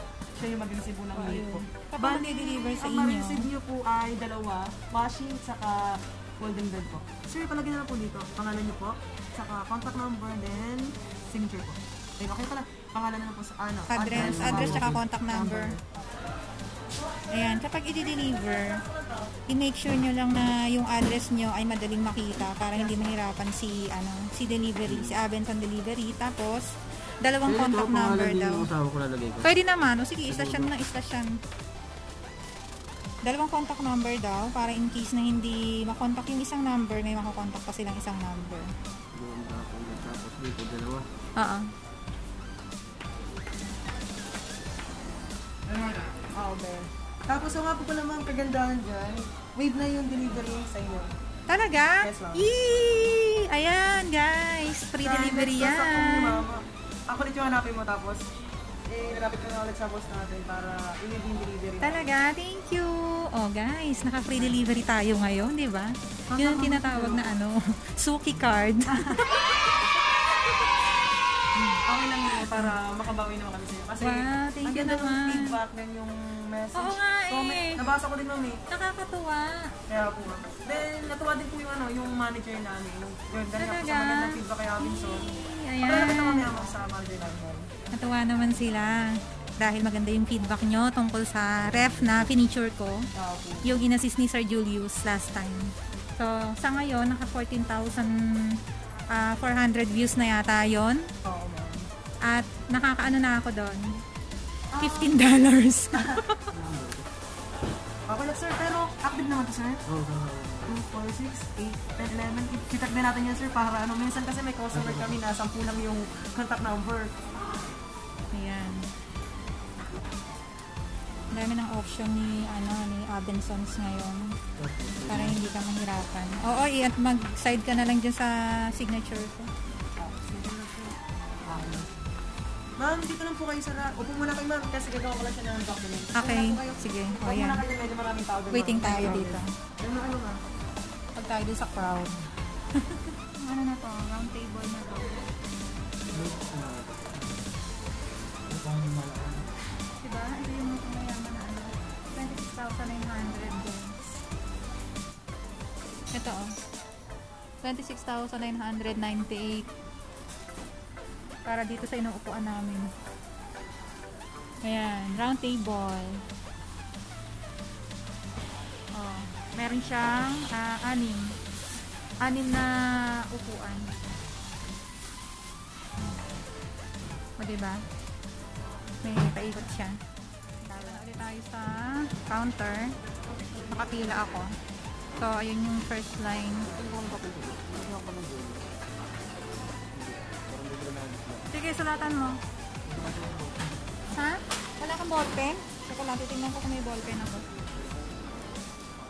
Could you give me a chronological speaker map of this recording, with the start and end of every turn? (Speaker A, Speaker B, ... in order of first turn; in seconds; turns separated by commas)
Speaker A: 0.3-15.8, Speaker B: 1.1-3.5, Speaker B: 13.9-15.7, Speaker C: 14.2-15.0, Speaker B: 17.3-18.8, Speaker B: 19.5-28.7, Speaker A: 22.7-23.1, Speaker C: 24.9-25.2, Speaker C: 27.5-29.5, Speaker B: 29.4-31.3, Speaker C: 30.3-30.7, Speaker B: 33.2-38.7, Speaker C: 39.1-41.1, Speaker B: 41.4-41.7, Speaker C: 45.7-46.1, Speaker A: 46.4-51.1, Speaker B: 51.5-56.4, Speaker A: 52.0-52.5, Speaker A: 55.0-58.2, Speaker A: 58.9-62.0, Speaker B: 61.8-70.7, Speaker A: 64.3-64.6, Speaker A: 66.3-67.3, Speaker A: 68.9-69.4, Speaker A: 71.8-78.6, Speaker B: 72.3-72.8, Speaker B: 74.0-75.6, Speaker B: 76.8-77.8, Speaker B: 78.7-79.7, Speaker A: 79.9-85.3, Speaker B: 83.6-86.5, Speaker A: 85.8-87.7, Speaker B: 87.9-93.1, Speaker A: 93.2-93.8, Speaker B: 93.6-98.6, Speaker B: 99.1-101.1, Speaker A: 101.2-101.9, Speaker B: 102.3-104.0, Speaker A: 104.7-105.2, Speaker B: 104.8-106.5, Speaker C: 106.5-107.1, Speaker A: 108.1-109.8, Speaker C: 109.9-110.7, Speaker A: 110.7-117.1, Speaker C: 114.7-115.2, Speaker B: 118.3-118.9, Speaker B: 121.3-124.4, Speaker C: 124.6-125.4, Speaker B: 125.1-129.5, Speaker A: 130.0-130.9, Speaker A: 131.5-131.9, Speaker A: 132.8-140.4, Speaker B: 136.2-137.6, Speaker B: 138.5-139.5, Speaker B: 141.2-145.2, Speaker C: 146.1-147.2, Speaker C: 148.5-149.5, Speaker B: 150.0-154.1, Speaker B: 156.1-156.5, Speaker B: 157.6-159.7, Speaker B: 161.5-162.9, Speaker B: 164.6-166.2, Speaker B: 168.9-171.4, Speaker B: 172.2-173.9, Speaker B: 177.4-177.8, Speaker B: 179.0-180.0, Speaker B: 180.6-183.0, Speaker B: 183.6-184.5, Speaker B: 185.2-186.7, Speaker C: 186.7-188.7, Speaker C: 189.9-191.4, Speaker B: 191.5-192.4, Speaker C: 192.9-193.7, Speaker B: 194.1-197.4